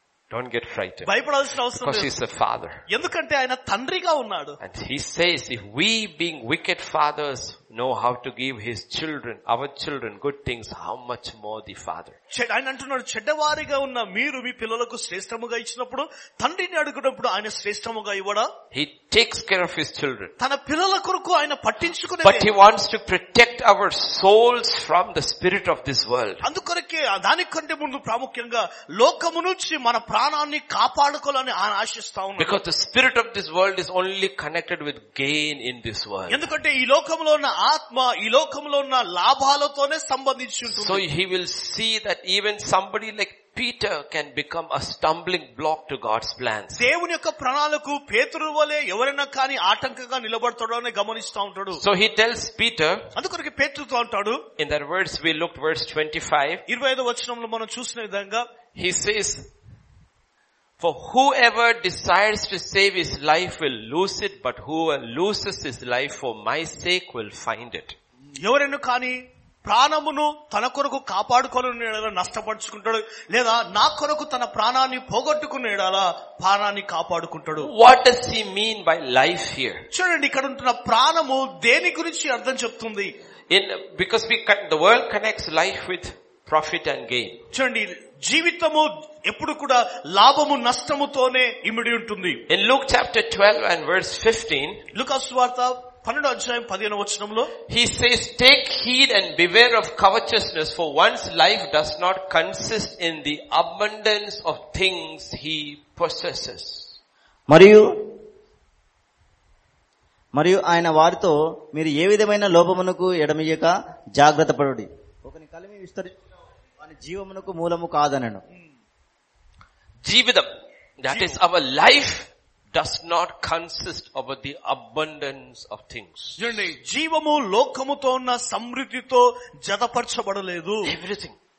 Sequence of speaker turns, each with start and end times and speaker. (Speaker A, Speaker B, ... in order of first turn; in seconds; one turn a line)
Speaker A: 0.3-1.1
Speaker B: 1.1-2.1
Speaker A: 1.7-2.8
Speaker B: 2.9-4.6
Speaker A: 4.6-12.2
Speaker B: 12.3-18.5
Speaker A: 18.7-20.3
Speaker B: 20.4-22.5
Speaker A: 22.2-26.4
Speaker B: 26.4-32.5
Speaker A: 32.4-36.5
Speaker B: 36.3-41.0
Speaker A: 40.7-46.8
Speaker B: 46.8-51.8
Speaker A: 51.8-53.1
Speaker B: 53.1-54.4
Speaker A: 54.6-56.6
Speaker B: 56.7-58.4
Speaker A: 58.7-59.4
Speaker A: 60.8-67.9
Speaker B: 68.4-77.7
Speaker A: 77.6-79.8
Speaker B: 79.9-83.1
Speaker A: 83.5-87.4
Speaker B: 87.5-92.4
Speaker A: 92.5-94.8
Speaker B: 94.9-97.5
Speaker A: 97.7-106.9
Speaker C: 107.5-108.0
Speaker C: 110.3-116.1
Speaker C: 116.8-118.4
Speaker A: 120.0-126.4
Speaker B: 121.1-121.4
Speaker B: 126.4-130.9
Speaker A: 130.8-131.4